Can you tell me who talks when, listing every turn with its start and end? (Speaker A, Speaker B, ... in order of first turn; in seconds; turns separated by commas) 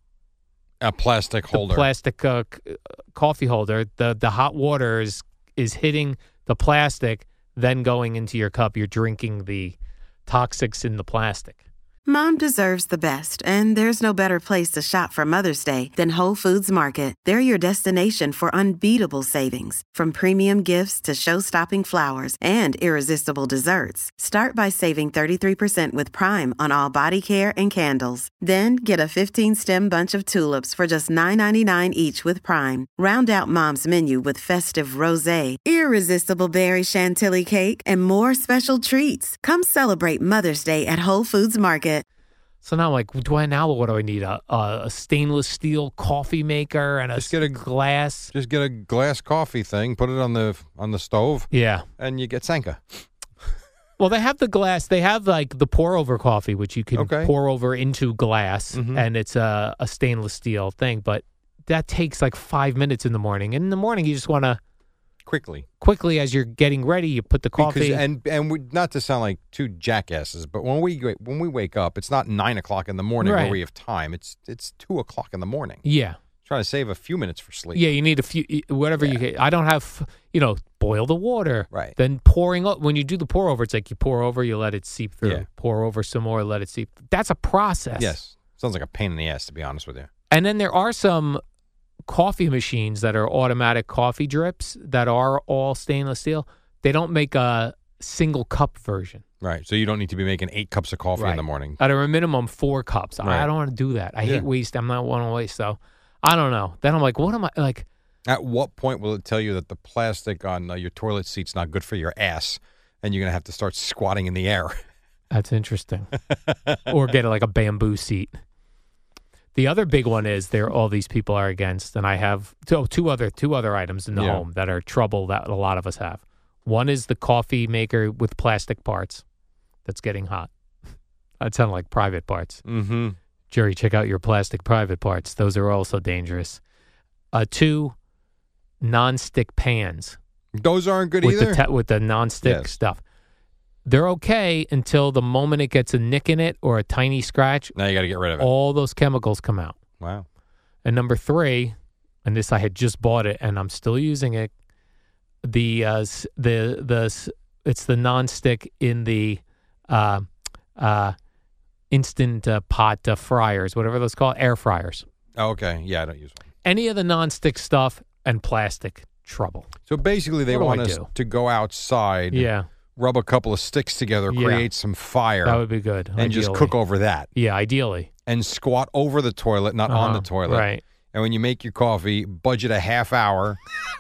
Speaker A: 0.8-1.9, Speaker B: 1.5-11.6, Speaker C: 12.1-42.0, Speaker B: 42.6-48.3, Speaker A: 47.2-47.6, Speaker A: 48.3-53.1, Speaker B: 51.5-51.9, Speaker B: 54.0-64.6, Speaker A: 56.9-57.3, Speaker A: 58.7-59.0, Speaker A: 65.2-65.7, Speaker B: 65.8-68.0, Speaker A: 67.6-75.8, Speaker B: 73.2-73.6, Speaker B: 75.8-76.2, Speaker A: 76.4-77.8, Speaker B: 77.7-88.2, Speaker A: 81.7-82.0, Speaker A: 88.0-90.1, Speaker B: 90.3-91.4, Speaker B: 92.1-99.2, Speaker A: 99.4-101.8, Speaker B: 101.2-107.8, Speaker A: 108.3-114.8, Speaker B: 115.3-116.1, Speaker A: 116.3-116.9, Speaker B: 116.9-118.4, Speaker B: 119.5-129.2, Speaker A: 124.1-124.4, Speaker B: 129.8-130.5, Speaker B: 131.4-132.6, Speaker A: 132.6-133.2, Speaker B: 133.5-136.6, Speaker B: 137.3-137.9, Speaker B: 138.8-140.2, Speaker A: 140.6-141.6, Speaker B: 141.2-143.0, Speaker A: 142.4-142.7, Speaker B: 143.8-147.7, Speaker A: 147.7-148.5, Speaker B: 148.4-149.8, Speaker A: 150.0-150.2, Speaker B: 150.8-154.5, Speaker B: 155.4-161.2, Speaker B: 161.9-165.1, Speaker A: 165.3-166.4, Speaker B: 166.6-169.7, Speaker A: 169.9-175.6, Speaker B: 170.5-171.1, Speaker B: 172.3-172.7, Speaker B: 174.3-174.7, Speaker B: 175.4-176.7, Speaker A: 176.2-177.3, Speaker B: 177.3-178.1, Speaker A: 178.2-183.6, Speaker B: 179.9-180.8